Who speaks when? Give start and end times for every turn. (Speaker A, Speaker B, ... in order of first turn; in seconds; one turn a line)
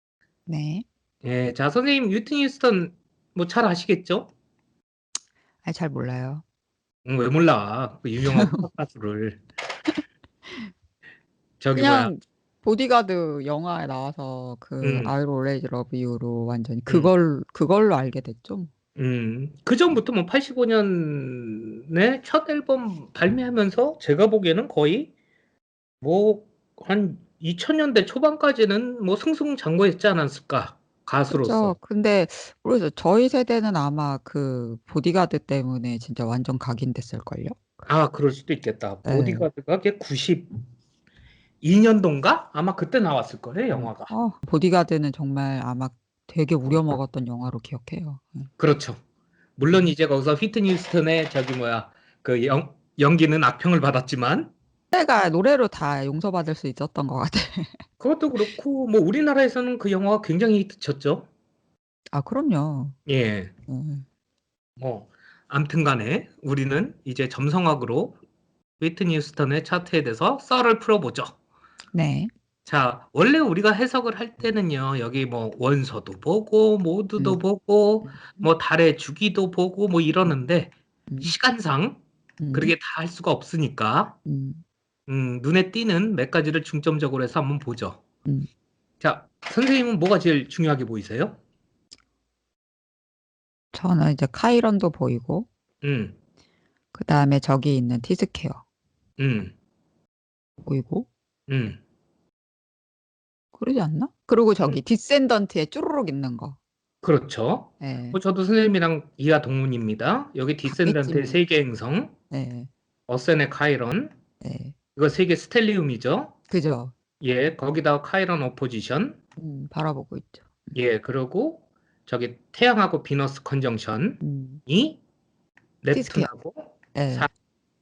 Speaker A: 0.5-0.8
Speaker B: 1.2-4.3
Speaker A: 5.6-6.4
Speaker B: 7.0-9.4
Speaker A: 8.3-8.7
Speaker B: 11.6-12.1
Speaker A: 11.7-18.7
Speaker B: 14.8-15.1
Speaker B: 18.9-25.1
Speaker B: 26.0-31.7
Speaker A: 31.3-37.7
Speaker B: 37.9-40.5
Speaker A: 39.0-39.5
Speaker B: 41.6-44.1
Speaker A: 43.7-48.5
Speaker B: 48.6-49.0
Speaker B: 49.6-54.5
Speaker A: 54.9-57.8
Speaker B: 58.0-61.2
Speaker A: 62.1-63.0
Speaker B: 63.0-63.5
Speaker A: 63.7-64.0
Speaker B: 64.8-68.2
Speaker B: 68.8-71.3
Speaker A: 71.9-72.3
Speaker B: 72.7-82.0
Speaker A: 78.0-78.5
Speaker A: 81.1-81.3
Speaker A: 82.4-82.7
Speaker B: 82.5-84.1
Speaker A: 84.2-84.6
Speaker B: 85.1-88.0
Speaker B: 89.0-91.4
Speaker A: 93.7-95.5
Speaker B: 95.8-96.1
Speaker A: 96.9-98.6
Speaker B: 99.2-99.5
Speaker A: 100.6-101.1
Speaker B: 101.5-101.8
Speaker A: 103.5-106.6
Speaker B: 107.0-112.1
Speaker A: 107.8-108.2
Speaker A: 110.6-111.4
Speaker A: 112.3-112.7
Speaker B: 113.1-114.1
Speaker A: 114.4-114.7
Speaker B: 115.0-116.3
Speaker A: 116.5-116.9
Speaker B: 117.2-119.2
Speaker A: 119.4-120.7
Speaker B: 120.7-125.0
Speaker A: 124.2-124.6
Speaker B: 125.8-127.3
Speaker A: 125.9-126.3
Speaker A: 126.9-127.3